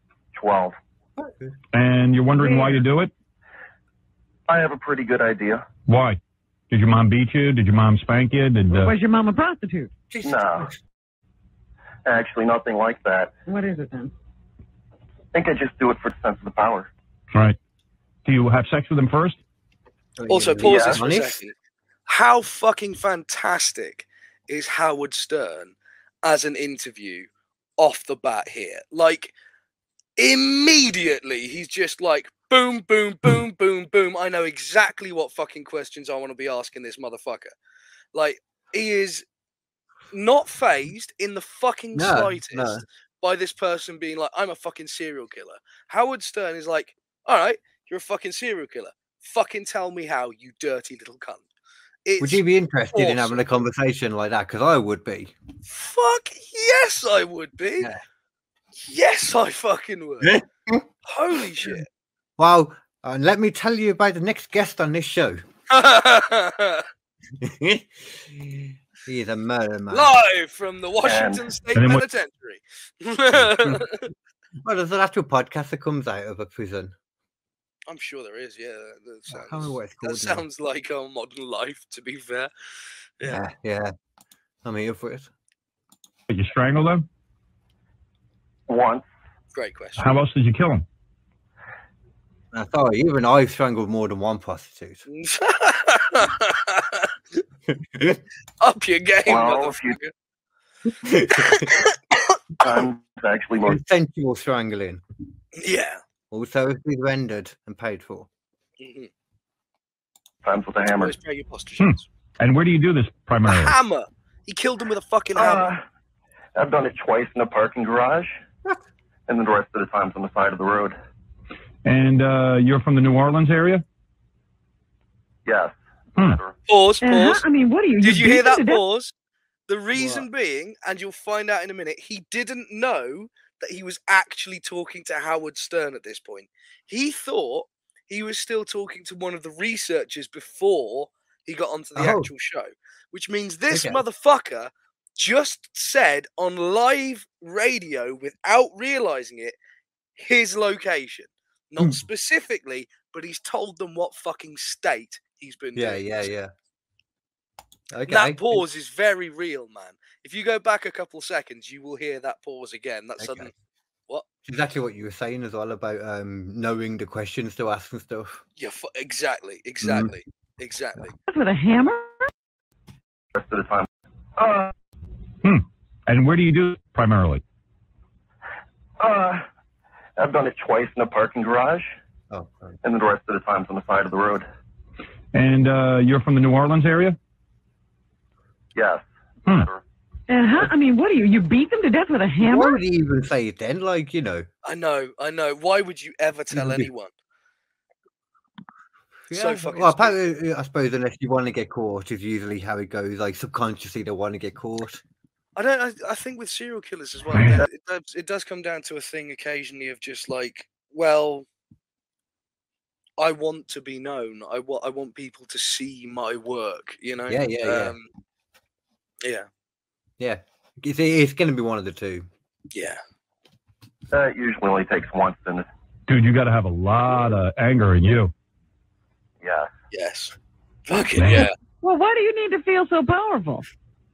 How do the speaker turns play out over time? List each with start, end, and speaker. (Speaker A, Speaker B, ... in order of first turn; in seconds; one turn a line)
Speaker A: 0.3-0.8
Speaker B: 1.2-1.5
Speaker C: 1.7-3.1
Speaker D: 2.4-2.8
Speaker A: 4.5-5.7
Speaker C: 5.8-6.2
Speaker C: 6.7-8.9
Speaker D: 8.7-9.9
Speaker B: 10.1-10.8
Speaker A: 10.2-10.7
Speaker A: 12.1-13.3
Speaker D: 13.5-14.1
Speaker A: 15.3-16.9
Speaker C: 18.2-19.4
Speaker B: 20.2-21.3
Speaker E: 20.3-21.5
Speaker A: 20.6-21.0
Speaker E: 22.1-29.3
Speaker E: 30.2-37.5
Speaker E: 38.1-39.2
Speaker E: 40.1-51.4
Speaker B: 41.9-42.8
Speaker E: 52.0-53.6
Speaker B: 52.2-55.3
Speaker E: 55.7-57.9
Speaker E: 58.9-60.4
Speaker B: 60.2-60.9
Speaker E: 61.0-61.9
Speaker B: 62.4-65.4
Speaker E: 65.7-66.8
Speaker B: 67.4-70.2
Speaker E: 69.9-74.1
Speaker A: 71.0-71.5
Speaker C: 71.7-72.0
Speaker B: 73.3-73.8
Speaker B: 74.6-76.9
Speaker E: 77.9-82.5
Speaker B: 79.3-80.4
Speaker B: 83.2-83.9
Speaker B: 84.6-85.3
Speaker C: 86.3-87.0
Speaker A: 88.7-89.0
Speaker E: 89.5-90.1
Speaker C: 90.0-90.8
Speaker B: 92.5-95.0
Speaker E: 95.1-97.1
Speaker B: 97.9-98.2
Speaker E: 98.6-100.1
Speaker A: 99.2-100.0
Speaker B: 101.0-101.7
Speaker E: 101.3-102.3
Speaker A: 102.6-103.8
Speaker B: 103.7-105.0
Speaker E: 105.5-106.0
Speaker B: 106.3-108.3
Speaker E: 108.8-109.1
Speaker A: 110.4-111.2
Speaker E: 110.9-112.0
Speaker C: 111.8-113.8
Speaker E: 113.5-115.7
Speaker A: 115.3-115.8
Speaker A: 116.5-118.4
Speaker A: 119.3-121.0
Speaker C: 121.8-123.8
Speaker A: 125.5-126.5
Speaker E: 126.7-127.4
Speaker D: 127.0-128.8
Speaker E: 128.0-129.1
Speaker E: 129.7-149.6
Speaker B: 129.9-130.3
Speaker B: 141.9-142.3
Speaker B: 143.7-144.0
Speaker E: 150.2-156.3
Speaker B: 155.7-156.5
Speaker B: 157.9-158.6
Speaker E: 158.1-163.5
Speaker B: 163.2-163.5
Speaker B: 164.4-168.4
Speaker E: 168.6-171.1
Speaker B: 169.8-170.1
Speaker D: 171.3-172.3
Speaker A: 173.3-174.7
Speaker C: 175.4-177.4
Speaker A: 179.0-179.4
Speaker A: 180.2-181.9
Speaker B: 182.3-182.8
Speaker A: 182.8-184.4
Speaker C: 185.3-187.2
Speaker A: 188.7-189.8
Speaker D: 190.3-192.8
Speaker B: 192.4-194.5
Speaker E: 194.6-197.1
Speaker B: 196.5-196.9
Speaker B: 199.3-205.0
Speaker E: 199.3-200.2
Speaker E: 205.6-211.5
Speaker C: 207.3-207.6
Speaker E: 213.2-218.1
Speaker B: 217.3-217.9
Speaker B: 220.2-222.3
Speaker E: 222.7-223.0
Speaker A: 224.1-225.7
Speaker C: 226.1-228.3
Speaker A: 229.4-229.7
Speaker E: 229.9-230.3
Speaker E: 230.9-231.5
Speaker C: 231.2-231.5
Speaker D: 231.8-233.7